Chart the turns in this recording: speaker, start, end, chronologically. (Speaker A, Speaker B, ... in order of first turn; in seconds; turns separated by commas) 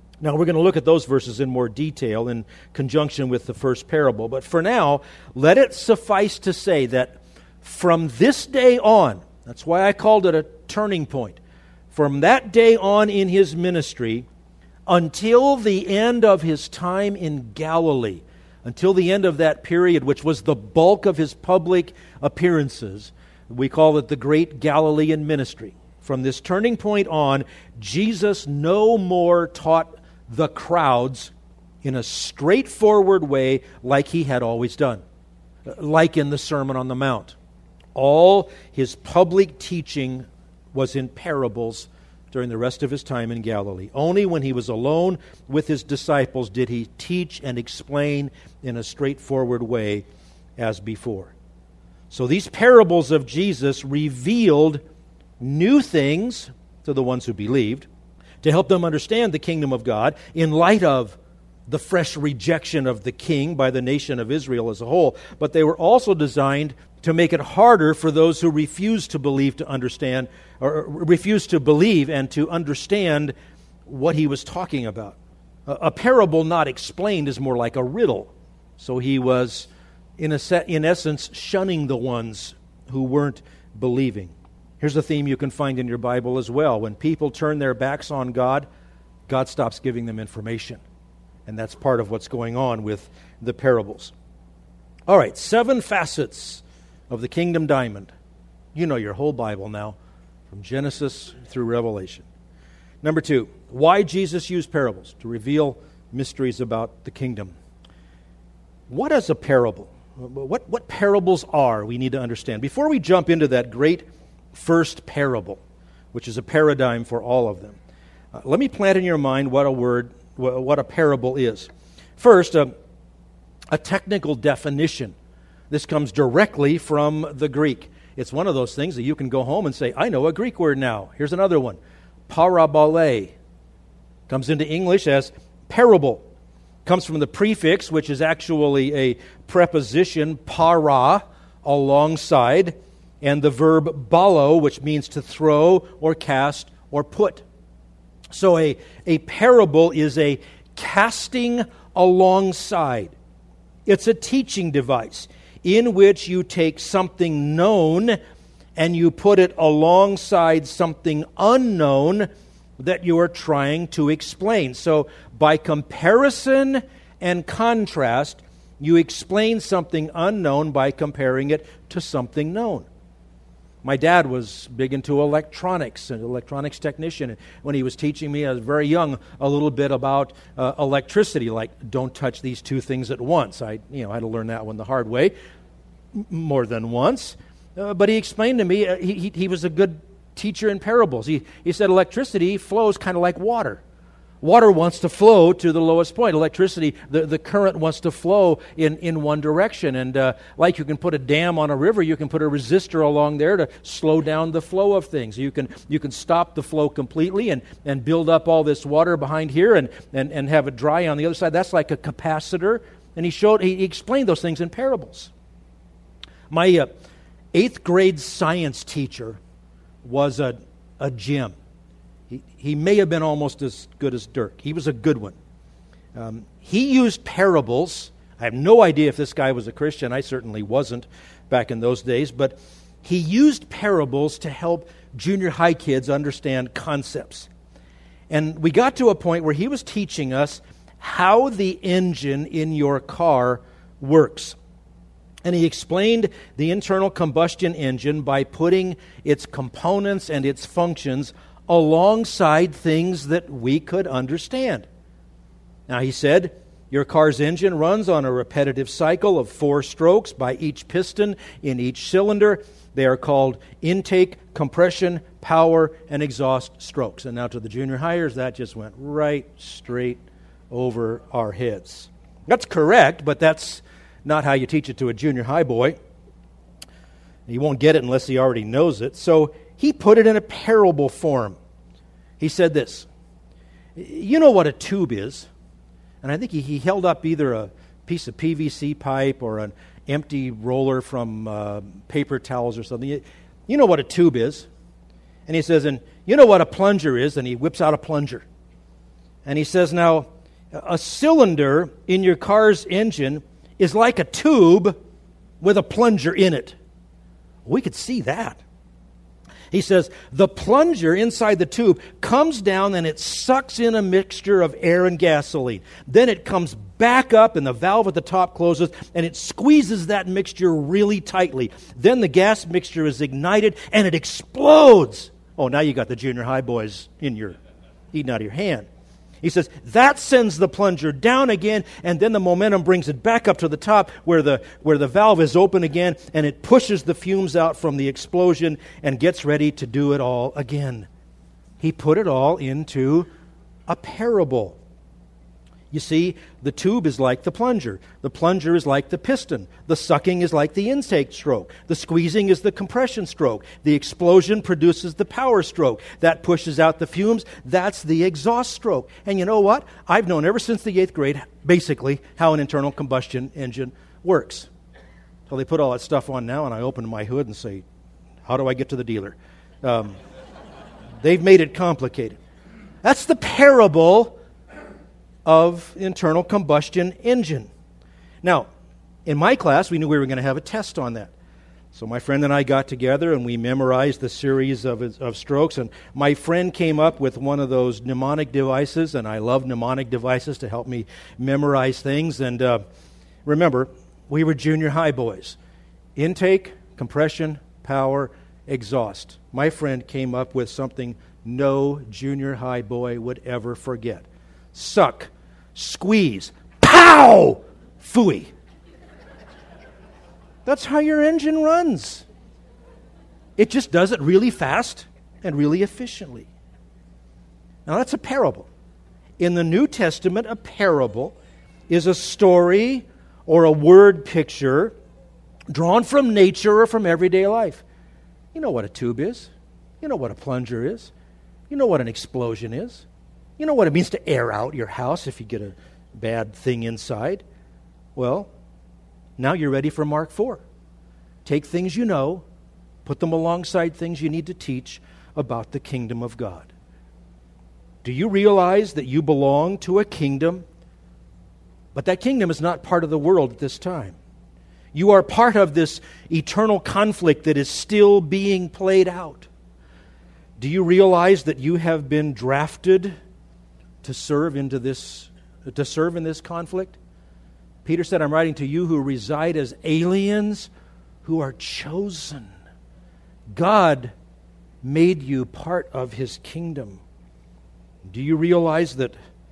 Speaker A: 0.2-14.3, Speaker A: 14.9-31.3, Speaker A: 31.8-35.0, Speaker A: 35.7-37.4, Speaker A: 38.0-50.0, Speaker A: 50.6-51.3, Speaker A: 52.1-54.8, Speaker A: 55.4-57.9, Speaker A: 58.4-61.2, Speaker A: 61.7-73.3, Speaker A: 73.9-88.7, Speaker A: 89.3-90.8, Speaker A: 91.5-94.1, Speaker A: 95.1-98.1, Speaker A: 98.8-100.0, Speaker A: 100.5-102.2, Speaker A: 103.0-107.5, Speaker A: 108.9-115.6, Speaker A: 116.1-117.8, Speaker A: 118.3-122.7, Speaker A: 123.7-125.2, Speaker A: 125.7-131.8, Speaker A: 132.3-133.3, Speaker A: 134.3-136.2, Speaker A: 136.8-147.4, Speaker A: 148.3-153.1, Speaker A: 153.9-158.2, Speaker A: 158.8-172.9, Speaker A: 173.8-185.3, Speaker A: 186.2-193.8, Speaker A: 194.4-215.3, Speaker A: 216.5-216.9, Speaker A: 217.5-219.4, Speaker A: 220.0-221.6, Speaker A: 222.3-225.4, Speaker A: 226.2-237.5, Speaker A: 238.3-244.6, Speaker A: 245.4-254.8, Speaker A: 255.9-270.2, Speaker A: 270.7-276.0, Speaker A: 277.5-281.6, Speaker A: 282.4-283.1, Speaker A: 283.9-285.5, Speaker A: 286.2-294.7, Speaker A: 295.4-298.4, Speaker A: 299.4-304.9, Speaker A: 305.6-306.8, Speaker A: 307.7-308.6, Speaker A: 309.7-327.6, Speaker A: 328.1-328.9, Speaker A: 329.4-341.1, Speaker A: 341.8-343.3, Speaker A: 343.9-344.8, Speaker A: 345.9-364.7, Speaker A: 365.5-367.8, Speaker A: 368.4-370.2, Speaker A: 371.2-372.4, Speaker A: 373.0-374.3, Speaker A: 375.4-377.7, Speaker A: 378.4-378.7, Speaker A: 379.3-381.3, Speaker A: 381.9-392.8, Speaker A: 393.4-395.6, Speaker A: 396.2-408.5, Speaker A: 410.6-412.2, Speaker A: 413.6-416.5, Speaker A: 417.9-418.7, Speaker A: 419.4-421.3, Speaker A: 421.9-424.9, Speaker A: 425.7-427.8, Speaker A: 428.5-431.1, Speaker A: 431.7-433.1, Speaker A: 433.6-437.4, Speaker A: 438.2-438.5, Speaker A: 439.4-440.6, Speaker A: 441.4-442.4, Speaker A: 443.1-446.7, Speaker A: 448.0-450.6, Speaker A: 451.9-454.2, Speaker A: 454.9-459.5, Speaker A: 460.6-463.1, Speaker A: 464.0-467.0, Speaker A: 467.8-470.7, Speaker A: 471.2-472.5, Speaker A: 473.5-474.1, Speaker A: 474.8-477.0, Speaker A: 478.0-479.1